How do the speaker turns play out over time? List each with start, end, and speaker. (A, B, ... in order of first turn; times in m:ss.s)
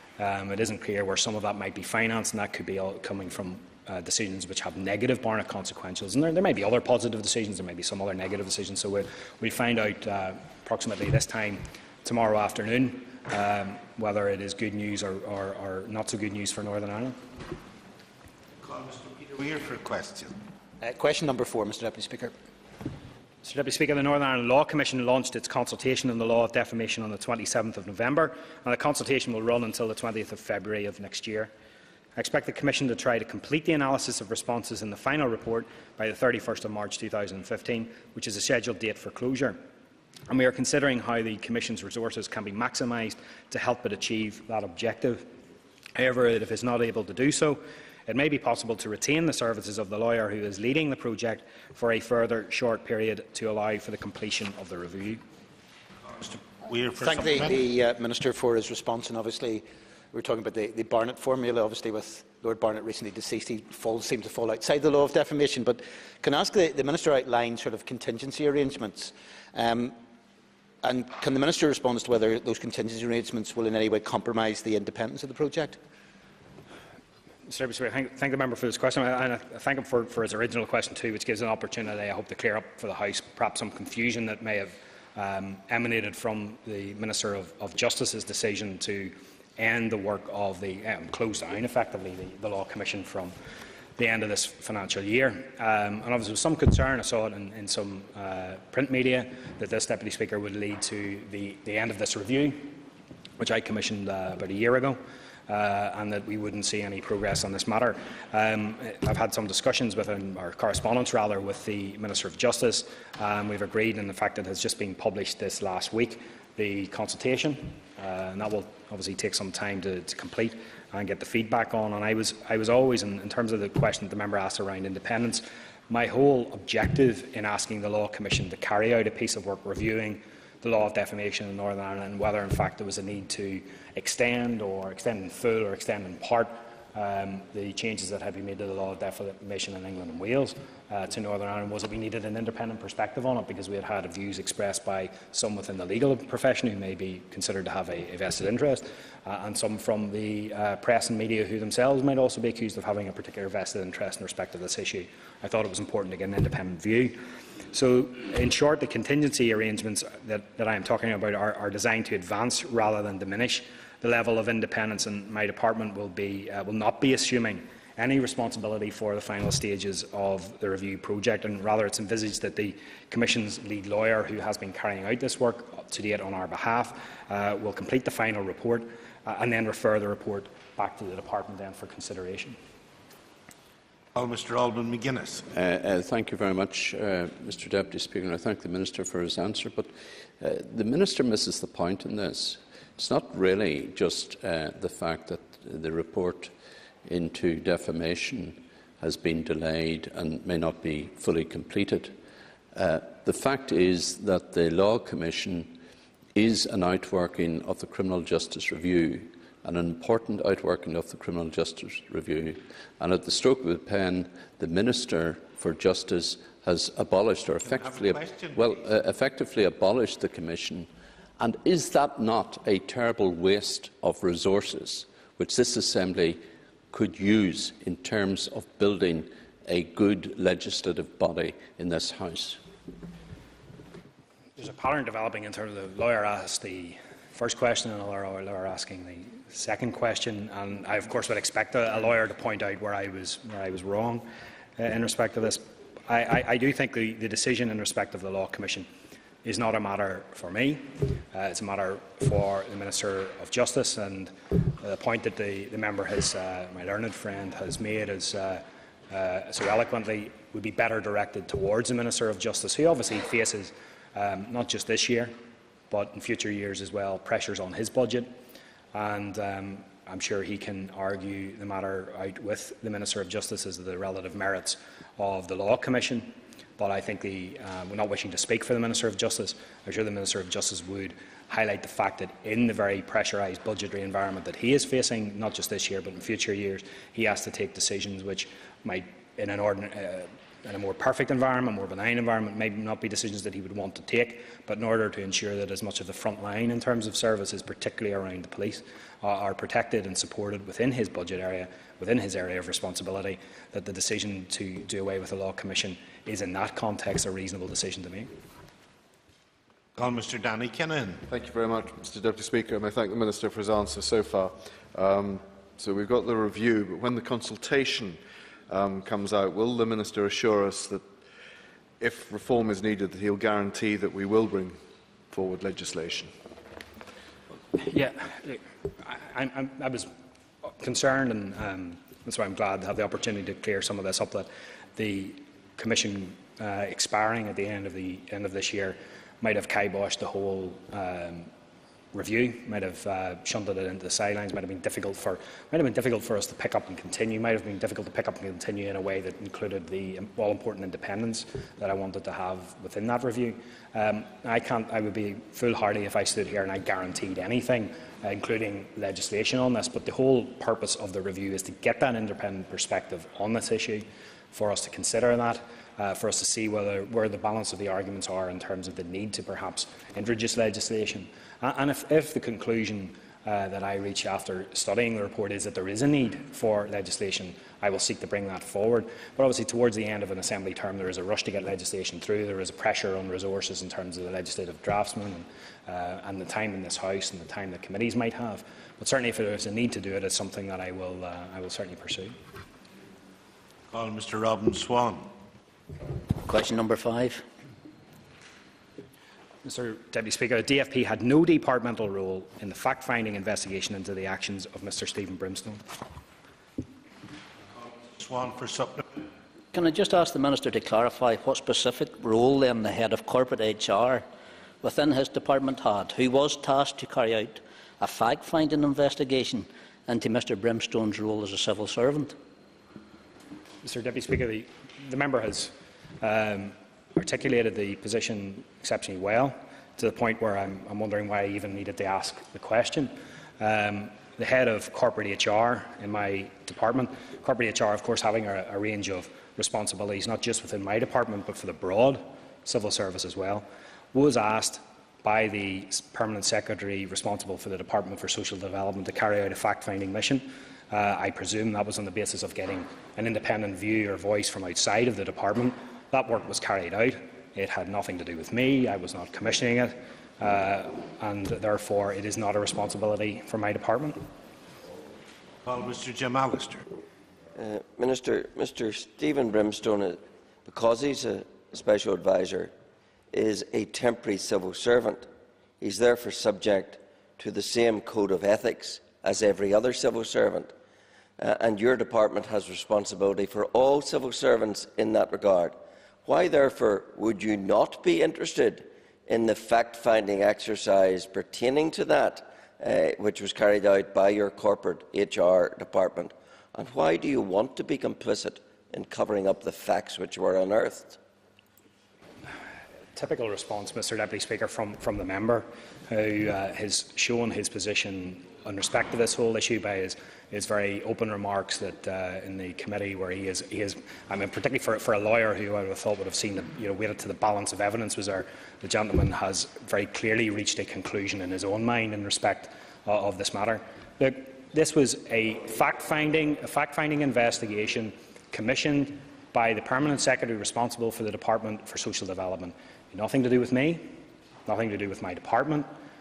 0:00.2-0:17.2 A
0:18.6-0:20.3 B
0:20.8-0:22.4 C
0:23.4-0:31.5 A
0:32.2-0:39.6 A
0:40.3-0:45.3 A
0:46.0-0:55.2 A
0:56.1-0:57.6 B
0:57.0-1:10.0 C
1:10.8-1:15.8 C
1:17.5-1:33.3 A
1:34.0-1:42.8 A
1:43.4-2:37.2 A
2:37.7-3:02.6 A
3:04.1-3:05.5 B
3:05.5-3:16.5 D
3:17.1-3:22.2 D
3:22.7-3:25.8 D
3:26.4-3:52.6 D
3:37.6-3:38.9 B
3:54.6-4:08.9 A
4:09.4-4:25.3 A
4:25.9-4:28.3 A
4:28.9-5:08.3 A
5:09.9-5:11.3 B
5:11.3-5:21.1 E
5:22.0-5:26.3 E
5:27.8-5:30.1 A
5:30.7-5:41.5 A
5:42.1-6:32.4 A
6:33.9-6:35.3 B
6:36.4-6:37.4 F
6:39.6-6:45.8 A
6:47.8-6:49.1 B
6:49.7-6:54.2 F
6:54.8-7:02.4 F
7:03.8-7:44.2 A
7:45.6-7:46.9 B
7:47.6-7:52.7 G
7:53.3-7:55.3 G
7:55.8-8:00.7 G
8:01.4-8:21.2 G
8:23.1-8:54.1 A
8:54.6-8:55.9 A